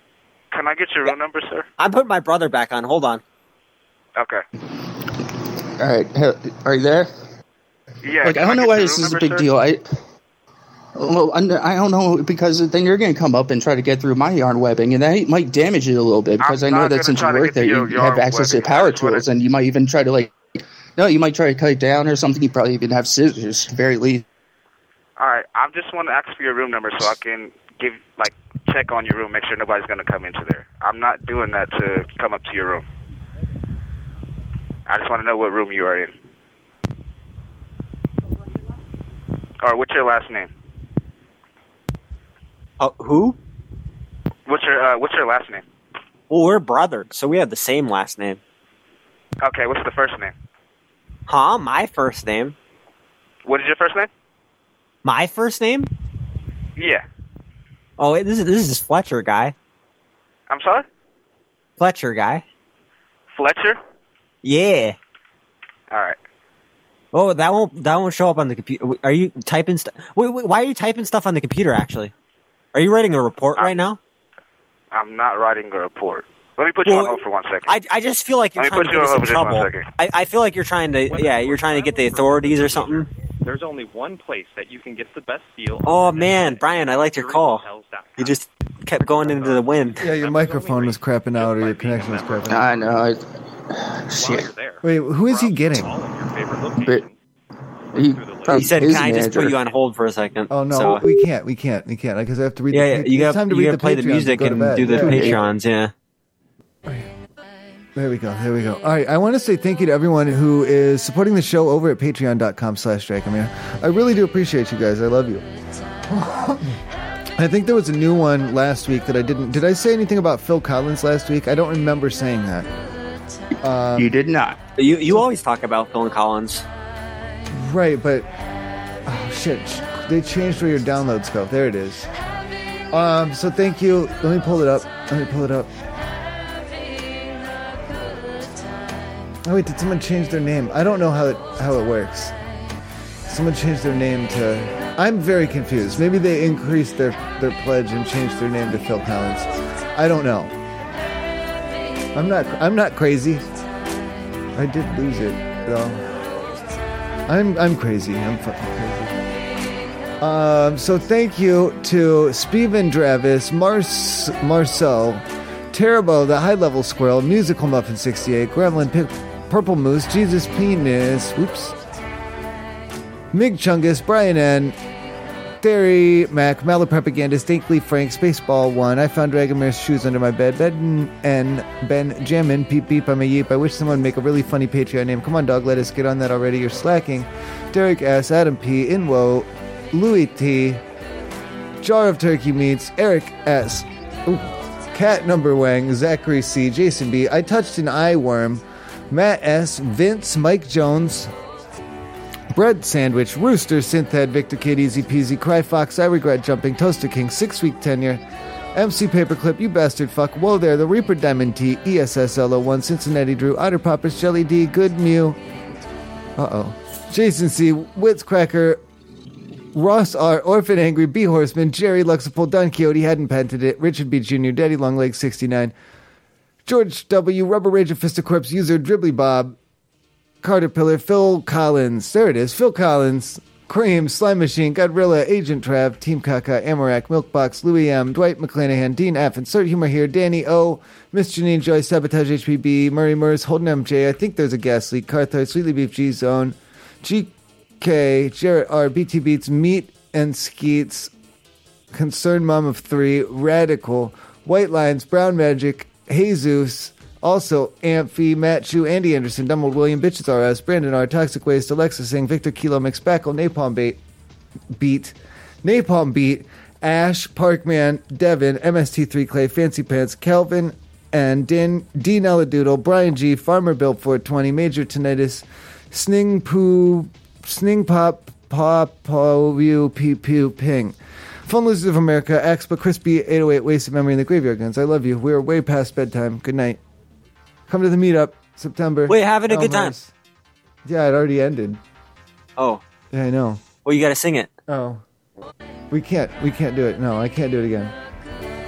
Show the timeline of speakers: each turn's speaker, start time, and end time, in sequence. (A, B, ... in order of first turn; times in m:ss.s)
0:00.5-0:01.7 A
0:01.8-0:03.2 B
0:04.2-0:04.4 A
0:05.8-0:07.1 C
0:08.0-0:09.4 A
0:08.2-0:09.8 C
0:11.0-0:20.3 C
0:16.4-0:19.2 A
0:21.0-0:24.2 C
0:25.2-0:32.8 A
0:34.9-0:36.1 A
0:39.6-0:40.5 A
0:42.8-0:43.4 B
0:44.5-0:45.6 A
0:46.3-0:48.4 B
0:49.4-0:50.3 A
0:51.3-0:52.6 B
0:53.5-0:54.1 A
0:55.0-0:55.9 B
0:56.8-0:57.0 A
0:58.0-0:59.5 B
1:00.5-1:00.8 A
1:01.8-1:02.4 B
1:03.3-1:03.8 A
1:04.4-1:05.0 B
1:05.9-1:06.2 A
1:07.1-1:12.1 B
1:12.7-1:14.0 B
1:14.9-1:17.8 A
1:16.9-1:23.1 B
1:18.6-1:19.9 A
1:21.1-1:28.4 D
1:25.9-1:27.6 B
1:28.2-1:30.0 B
1:29.0-1:32.9 D
1:30.0-1:32.7 E
1:32.5-1:34.5 C
1:34.2-1:37.2 D
1:34.8-1:35.9 E
1:36.8-1:37.1 C
1:37.9-1:38.6 D
1:37.9-1:39.6 C
1:38.5-1:41.0 B
1:40.5-1:45.5 E
1:42.7-1:45.9 B
1:44.9-1:45.3 C
1:48.0-1:55.5 E
1:56.1-1:56.8 E
1:57.4-2:02.7 E
2:03.6-2:04.1 E
2:04.0-2:04.6 C
2:04.8-2:06.6 B
2:07.5-2:08.3 E
2:09.1-2:12.1 E
2:12.9-2:15.7 E
2:19.4-2:22.3 E
2:23.3-2:30.6 E
2:32.1-2:33.4 E
2:34.6-2:36.0 E
2:37.3-2:39.2 E
2:40.2-2:51.8 E
2:53.3-2:54.8 E
2:55.6-3:10.8 E
3:11.8-3:21.3 E
3:22.5-3:28.2 E
3:28.8-3:35.4 E
3:36.4-3:38.8 E
3:39.7-3:45.7 E
3:46.6-3:49.6 E
3:50.4-4:11.1 E
4:11.9-4:24.0 E
4:24.7-4:46.8 E
4:47.7-4:50.1 E
4:49.1-4:49.9 B
4:50.8-4:51.8 E
4:52.6-4:52.8 B
4:53.1-4:53.6 E
4:53.8-4:54.5 B
4:54.7-4:55.0 E
4:55.9-4:57.9 E